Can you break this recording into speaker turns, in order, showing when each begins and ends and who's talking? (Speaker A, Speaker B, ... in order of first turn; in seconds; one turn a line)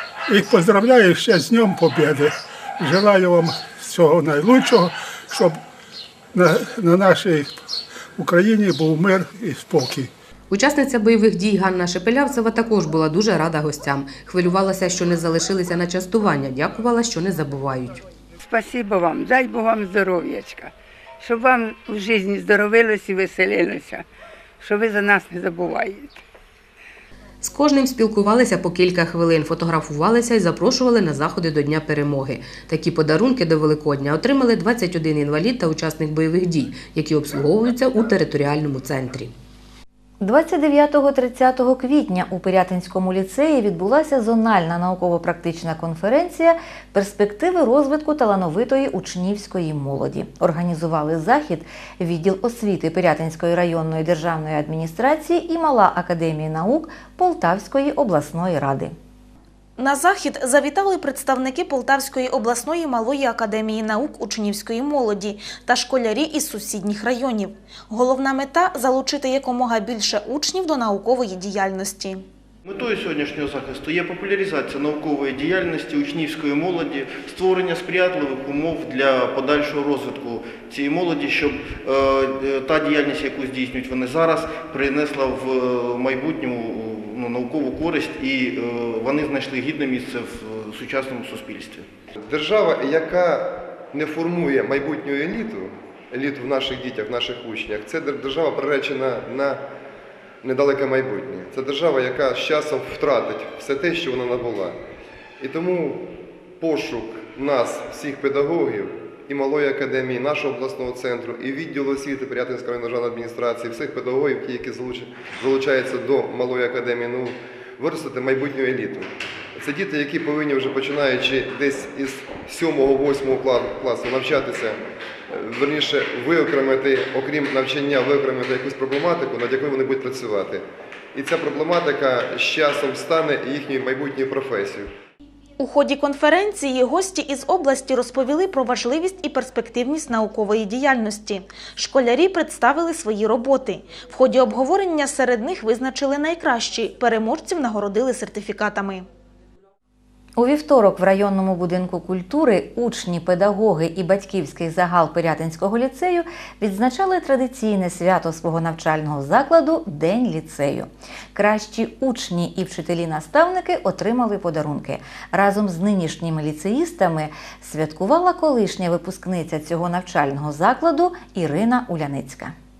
Speaker A: 0.3-5.6
Speaker A: 6.3-7.5
Speaker A: 8.2-10.1
Speaker B: 10.5-18.0
Speaker C: 18.4-24.0
Speaker C: 24.6-26.2
Speaker B: 27.4-39.3
Speaker D: 40.2-58.9
Speaker E: 59.8-72.2
Speaker F: 72.7-91.8
Speaker G: 92.3-99.6
Speaker G: 100.4-104.8
Speaker G: 105.4-124.8
Speaker G: 125.3-134.9
Speaker E: 135.6-149.1
Speaker D: 150.4-172.5